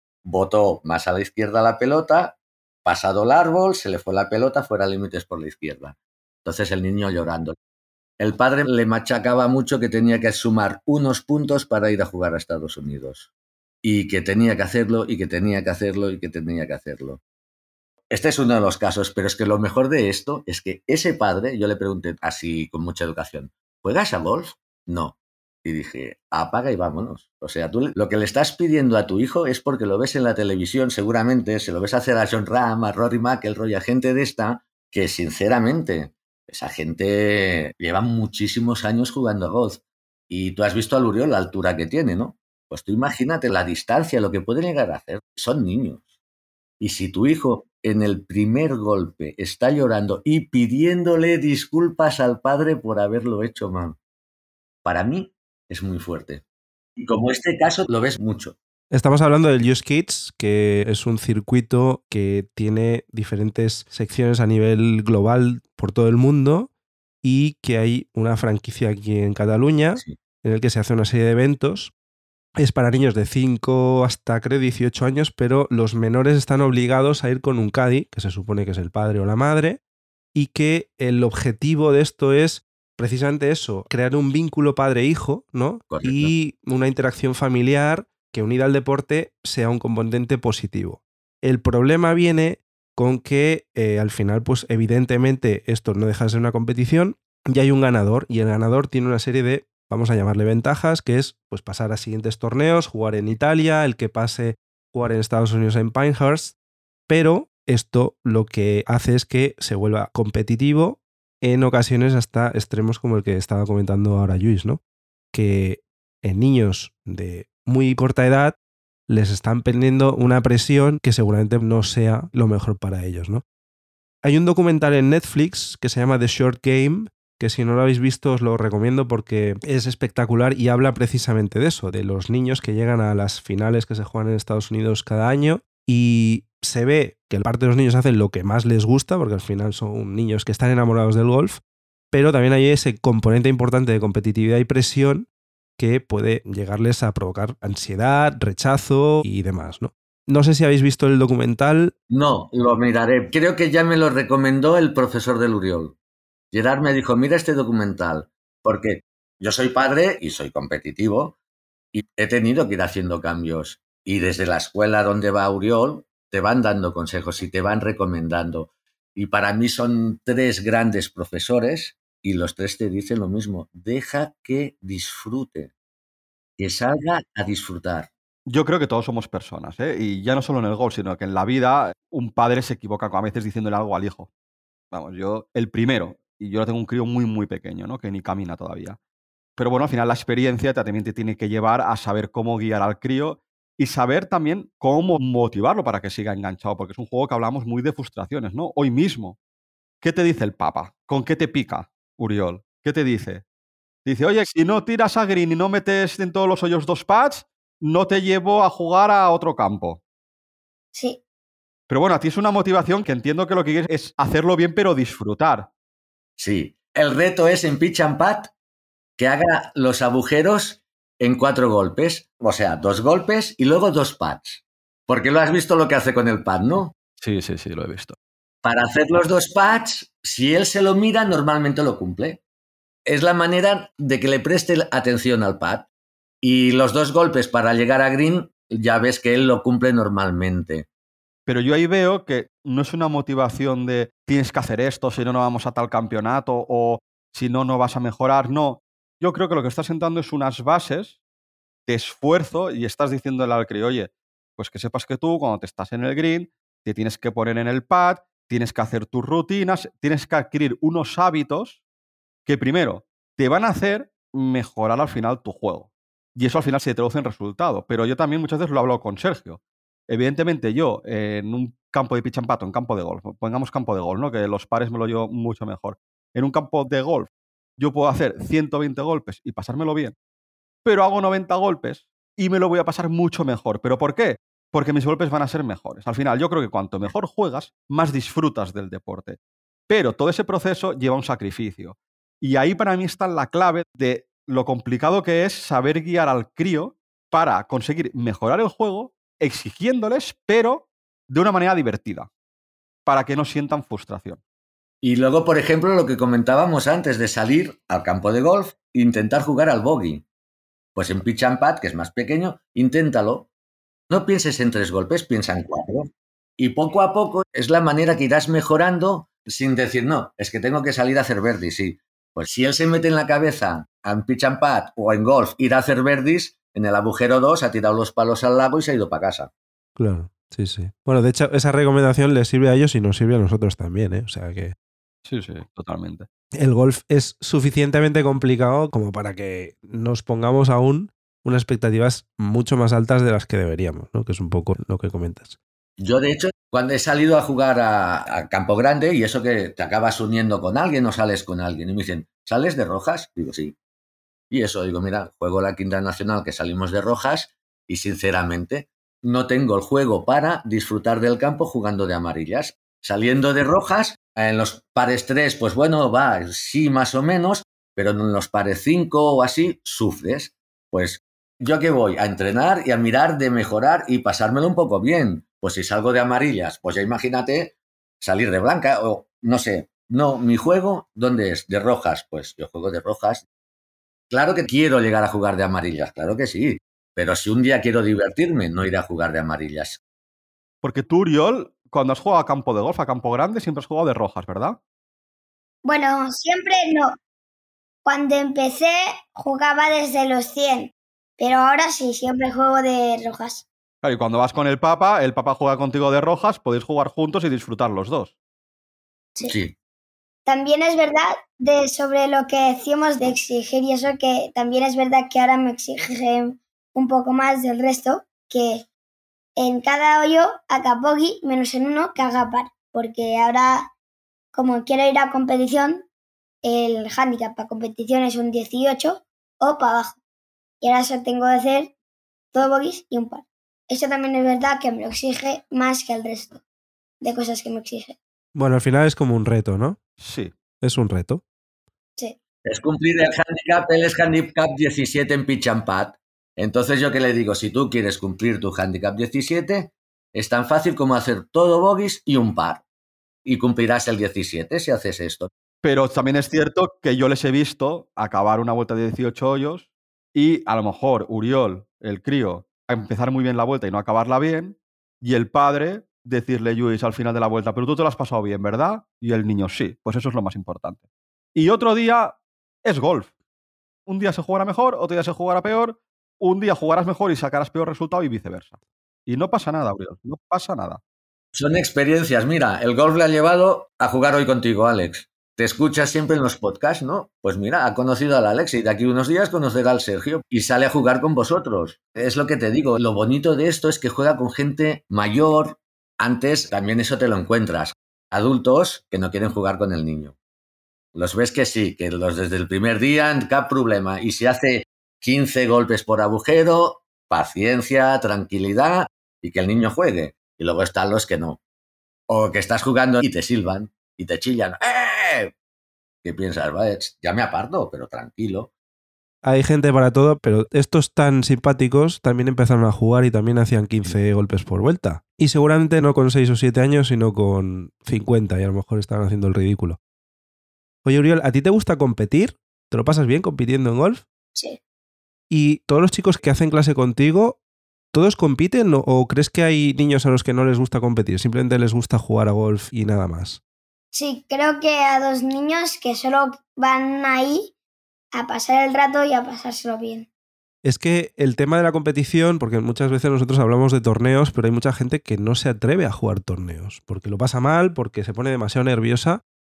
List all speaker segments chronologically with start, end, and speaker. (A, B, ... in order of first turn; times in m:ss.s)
0:00.2-0:07.6 A
0:08.2-0:13.3 A
0:13.8-0:17.2 A
0:18.1-0:46.1 A
0:46.8-0:54.0 A
0:54.8-0:56.4 A
0:57.0-0:58.6 A
0:58.9-1:06.7 B
1:07.2-1:11.9 B
1:12.6-1:19.8 B
1:20.3-1:46.6 B
1:25.9-1:26.3 A
1:47.1-1:54.8 B
1:55.3-1:58.6 B
1:59.1-2:03.4 B
2:04.2-2:21.6 B
2:22.1-2:25.3 B
2:25.8-2:31.9 B
2:32.1-2:36.0 A
2:36.5-2:41.4 A
2:41.9-2:55.7 A
2:56.6-2:58.1 A
2:58.5-3:04.3 C
3:04.9-3:09.0 C
3:09.6-3:19.4 C
3:20.0-3:23.4 C
3:24.0-3:30.0 C
3:30.9-3:31.2 D
3:31.9-3:35.7 C
3:36.4-3:38.5 A
3:39.2-3:46.9 A
3:47.2-3:48.2 C
3:48.6-3:52.4 A
3:53.0-3:55.8 A
3:56.4-4:00.9 A
4:01.5-4:11.2 C
4:11.9-4:21.8 C
4:22.4-4:40.1 C
4:40.8-4:49.4 C
4:49.9-5:02.3 C
5:03.0-5:04.4 C
5:05.0-5:10.2 A
5:11.0-5:13.5 A
5:14.1-5:29.5 A
5:30.0-5:34.7 B
5:35.2-5:36.3 C
5:36.6-5:45.6 B
5:46.0-5:53.8 A
5:54.5-6:23.4 A
6:24.3-6:30.0 A
6:30.8-6:34.8 C
6:35.8-6:37.2 D
6:38.0-6:43.6 D
6:44.0-6:48.4 C
6:49.4-6:49.7 A
6:50.4-6:58.8 D
6:59.6-7:03.9 D
7:04.5-7:06.0 D
7:06.6-7:10.2 D
7:10.8-7:11.9 D
7:12.5-7:16.6 D
7:17.2-7:18.2 D
7:18.5-7:20.0 B
7:20.2-7:20.5 C
7:20.8-7:21.4 B
7:22.6-7:32.8 A
7:33.4-7:35.5 A
7:35.8-7:51.0 C
7:51.5-7:53.3 C
7:54.1-7:58.8 C
7:59.3-8:01.0 C
8:01.5-8:20.3 A
8:21.1-8:31.6 A
8:32.3-8:35.5 A
8:36.2-8:38.7 A
8:39.4-8:50.0 B
8:51.0-8:54.2 B
8:55.5-8:57.6 B
8:58.1-9:03.6 B
9:04.1-9:07.7 D
9:08.3-9:10.3 D
9:10.8-9:19.4 B